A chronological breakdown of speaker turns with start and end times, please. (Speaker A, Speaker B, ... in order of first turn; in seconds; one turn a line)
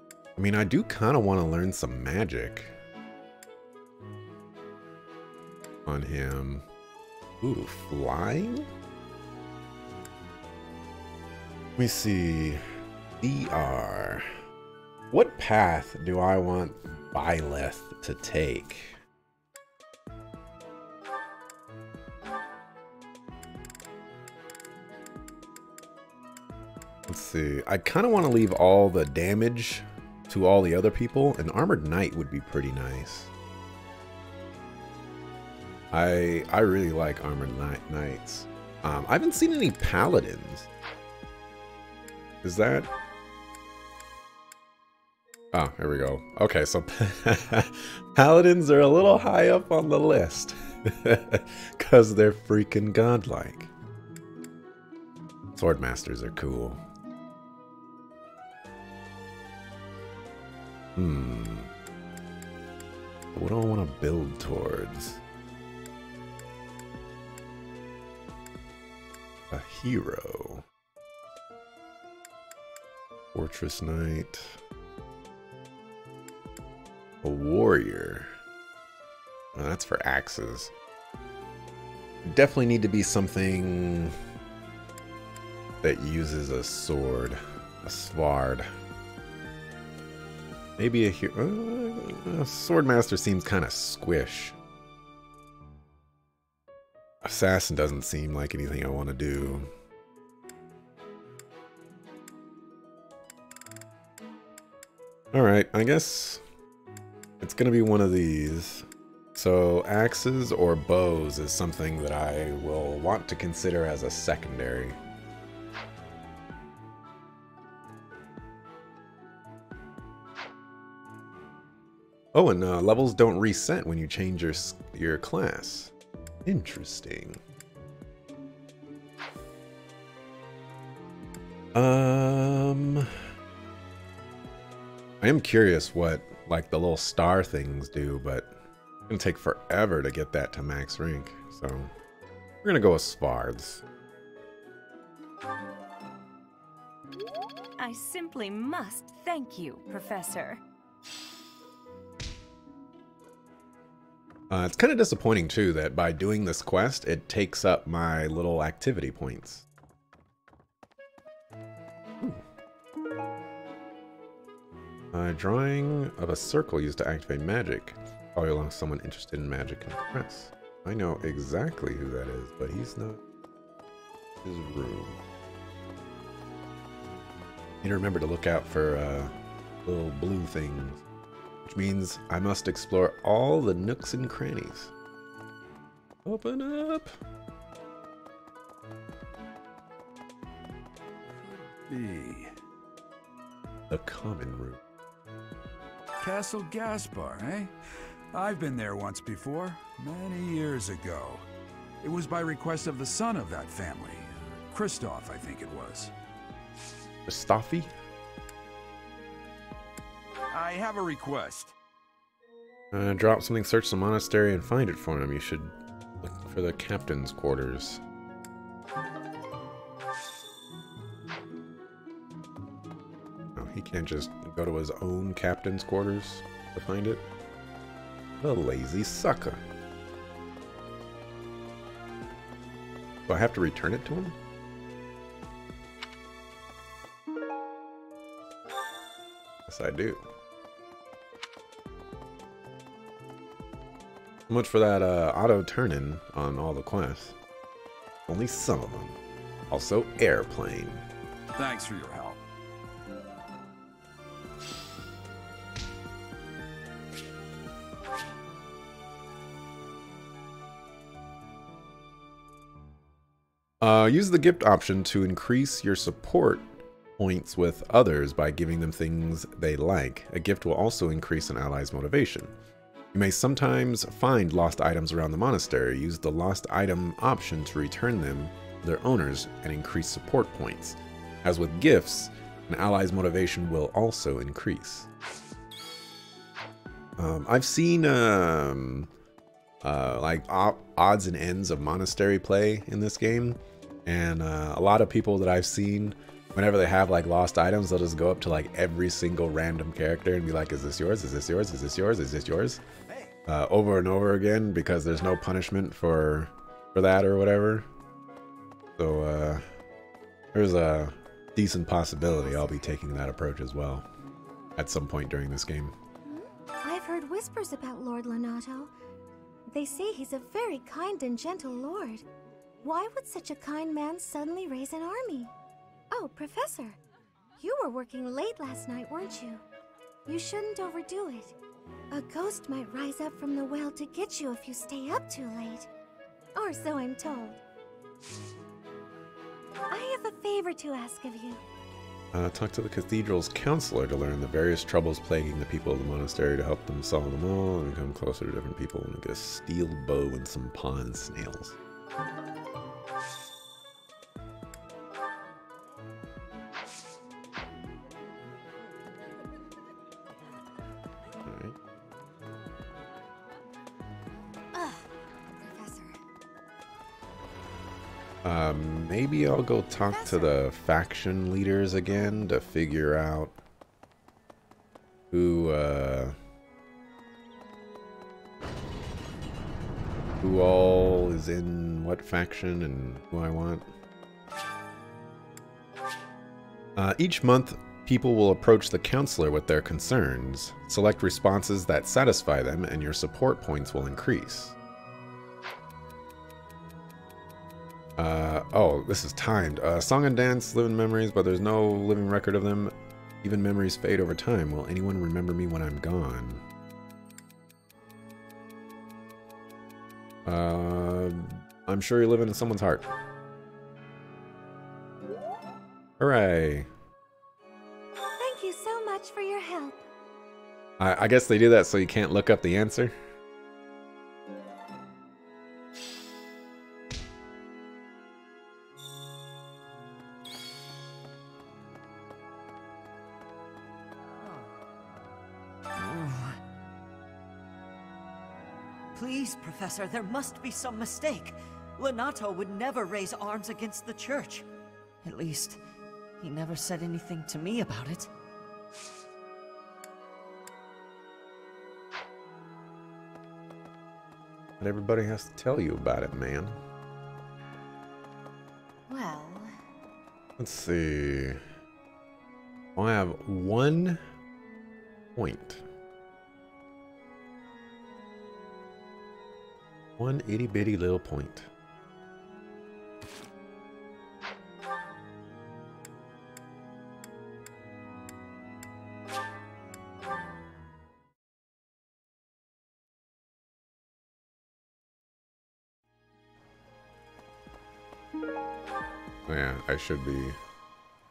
Speaker A: 0.4-2.8
Speaker A: 5.9-6.7
Speaker A: 7.4-8.7
Speaker A: 11.8-12.6
Speaker A: 13.2-14.3
Speaker A: 15.1-19.0
Speaker A: 27.1-33.3
Speaker A: 35.9-40.7
Speaker A: 42.4-42.9
Speaker A: 45.5-53.7
Speaker A: 55.5-56.8
Speaker A: 61.0-61.7
Speaker A: 63.3-65.2
Speaker A: 69.5-70.7
Speaker A: 73.3-74.6
Speaker A: 77.2-78.3
Speaker A: 79.5-80.7
Speaker A: 82.2-84.1
Speaker A: 85.8-88.7
Speaker A: 90.8-94.6
Speaker A: 97.2-99.7
Speaker A: 105.3-106.4
Speaker A: 107.4-115.0
Speaker A: 122.3-125.9
Speaker A: 126.5-127.4
Speaker A: 131.7-133.1
Speaker A: 135.2-138.6
Speaker A: 139.1-141.9
Speaker A: 142.6-143.8
Speaker B: 148.0-150.3
Speaker A: 154.5-159.7
Speaker A: 165.1-173.2
Speaker A: 174.4-175.2
Speaker A: 177.8-179.3
Speaker A: 179.8-181.0
Speaker A: 181.7-184.9
Speaker A: 186.2-187.1
Speaker C: 191.3-192.5
Speaker A: 193.9-194.8
Speaker C: 196.2-197.7
Speaker C: 198.3-201.4
Speaker C: 202.0-206.1
Speaker A: 207.3-207.9
Speaker C: 210.5-211.8
Speaker A: 212.9-218.0
Speaker A: 223.6-227.2
Speaker A: 228.4-229.6
Speaker A: 233.3-234.4
Speaker A: 239.7-240.2
Speaker A: 244.5-247.4
Speaker A: 248.3-249.2
Speaker A: 249.7-251.1
Speaker C: 251.5-252.4
Speaker A: 263.8-272.5
Speaker A: 273.1-285.1
Speaker A: 287.2-289.1
Speaker A: 289.8-302.8
Speaker A: 303.5-307.9
Speaker A: 309.0-309.6
Speaker A: 310.5-314.1
Speaker A: 314.8-315.9
Speaker D: 316.2-318.9
Speaker D: 319.7-322.3
Speaker D: 322.8-325.5
Speaker D: 326.1-327.0
Speaker D: 327.6-329.6
Speaker D: 330.3-331.6
Speaker D: 332.1-335.9
Speaker D: 336.6-337.6
Speaker D: 339.9-341.6
Speaker A: 342.3-351.8
Speaker A: 361.4-361.8
Speaker D: 364.8-365.0
Speaker D: 365.6-366.2
Speaker A: 368.4-373.6
Speaker D: 370.1-370.6
Speaker A: 375.3-376.4
Speaker A: 380.4-383.9
Speaker A: 387.0-394.8
Speaker A: 398.2-406.6
Speaker A: 410.4-413.1
Speaker A: 416.2-416.9
Speaker D: 418.4-420.1
Speaker A: 421.0-423.1
Speaker E: 436.0-436.6
Speaker E: 439.1-444.7
Speaker E: 445.2-445.8
Speaker E: 446.4-448.3
Speaker A: 454.8-456.8
Speaker A: 460.6-461.6
Speaker A: 463.0-464.2
Speaker A: 465.4-465.9
Speaker A: 470.2-471.7
Speaker A: 489.5-490.6